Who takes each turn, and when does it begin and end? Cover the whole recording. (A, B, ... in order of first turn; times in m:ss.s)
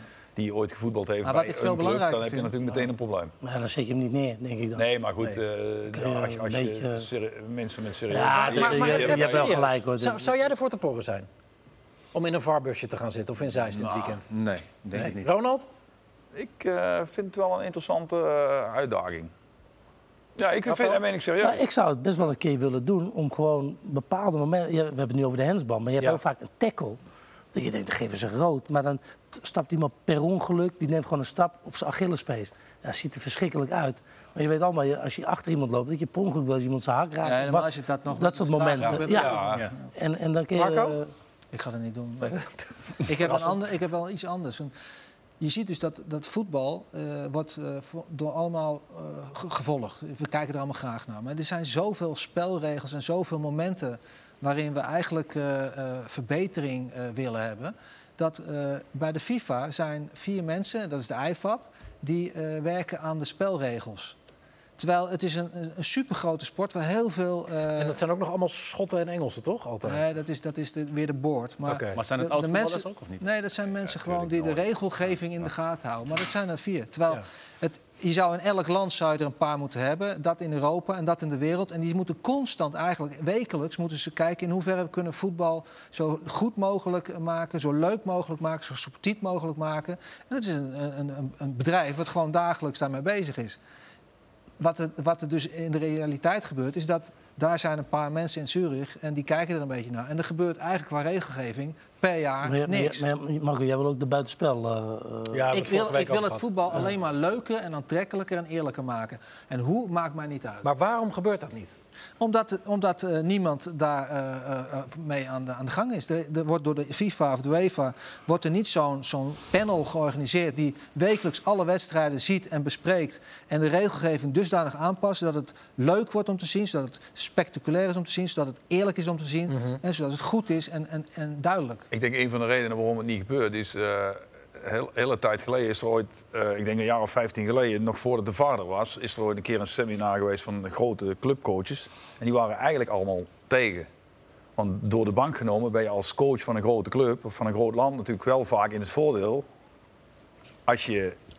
0:00.4-0:03.3 A
0:01.2-0:02.6 B
0:03.4-0:04.9 C
0:04.8-0:09.6 A
0:05.9-0:07.1 C
0:08.1-0:10.3 C
0:08.4-0:11.3 D
0:12.1-0:14.3 D
0:13.7-0:15.3 E
0:14.9-0:15.7 D
0:16.3-0:19.3 A
0:20.4-0:21.6 A
0:20.7-0:21.0 D
0:21.4-0:27.0 C
0:27.5-0:41.1 C
0:37.2-0:39.7 B
0:38.8-0:39.6 A
0:40.6-0:41.0 D
0:41.5-0:42.4 B
0:43.0-0:44.7 B
0:45.4-1:04.2 B
1:04.8-1:08.0 B
1:07.8-1:10.1 D
1:09.8-1:33.6 B
1:11.7-1:12.0 D
1:11.9-1:13.2 E
1:13.9-1:14.6 A
1:34.6-1:43.0 B
1:42.4-1:45.6 C
1:45.3-1:46.4 D
1:45.5-1:50.7 B
1:50.6-1:51.8 D
1:52.2-2:11.9 B
2:09.5-2:09.8 D
2:11.9-2:23.9 A
2:24.6-2:29.5 A
2:30.7-2:31.2 A